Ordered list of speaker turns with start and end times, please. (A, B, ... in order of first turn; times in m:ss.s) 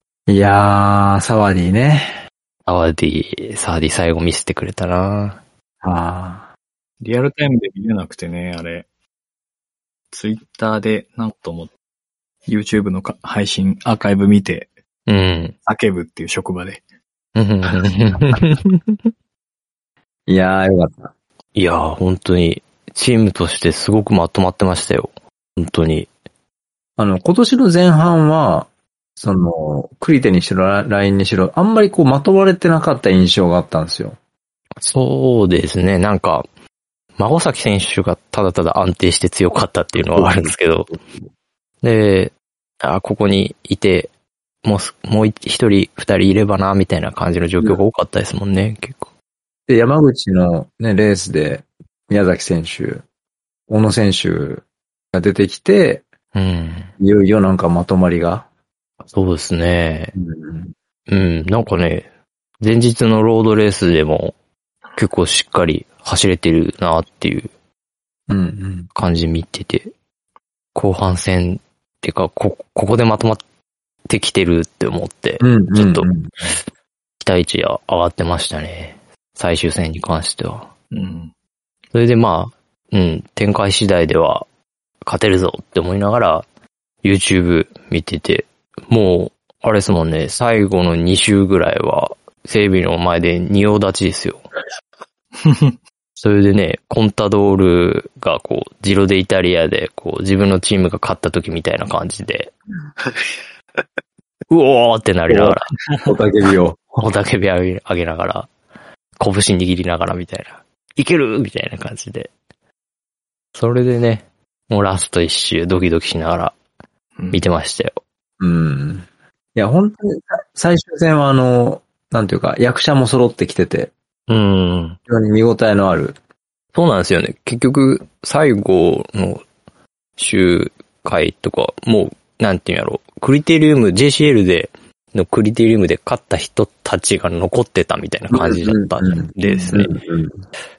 0:00.3-0:02.2 A
0:02.7-0:05.4 B
0:05.8-0:06.5 A
0:07.0-0:08.9 C
0:10.1-0:11.7 C
0:12.5-0:14.7 C
0:15.1-0:15.6 B
0:15.7-0:16.8 C
0:17.4-0:19.1 B
0:20.3-0:21.1 A
0:21.6-0:26.1 B
0:27.0-0:34.2 A
0:34.8-0:36.5 B
0:37.2-0:41.0 B
0:40.0-0:40.9 A
0:41.8-0:44.1 B
0:44.6-0:49.1 B
0:49.7-0:53.0 A
0:53.7-0:56.1 A
0:56.3-0:56.9 B
0:57.0-0:58.5 A
0:59.1-1:00.2 B
1:00.2-1:00.7 A
1:01.1-1:02.1 B
1:02.6-1:04.4 B
1:05.0-1:07.5 B
1:08.3-1:08.9 A
1:09.0-1:09.9 B
1:10.8-1:13.4 B
1:14.1-1:16.2 B
1:15.4-1:16.5 A
1:17.2-1:20.7 B
1:20.9-1:21.3 C
1:21.9-1:24.5 B
1:25.0-1:26.5 B
1:27.0-1:34.4 B
1:35.4-1:35.8 C
1:36.2-1:42.5 B
1:44.5-1:45.7 B
1:45.3-1:47.0 A
1:45.9-1:46.1 C
1:47.0-1:48.5 B
1:49.2-1:52.3 B
1:53.6-1:56.6 B
1:57.2-1:57.4 C
1:57.3-1:58.0 B
1:58.4-2:03.9 A
2:04.3-2:05.0 B
2:05.1-2:06.2 A
2:06.8-2:09.4 B
2:10.2-2:20.0 B
2:18.3-2:20.4 A
2:19.4-2:19.7 C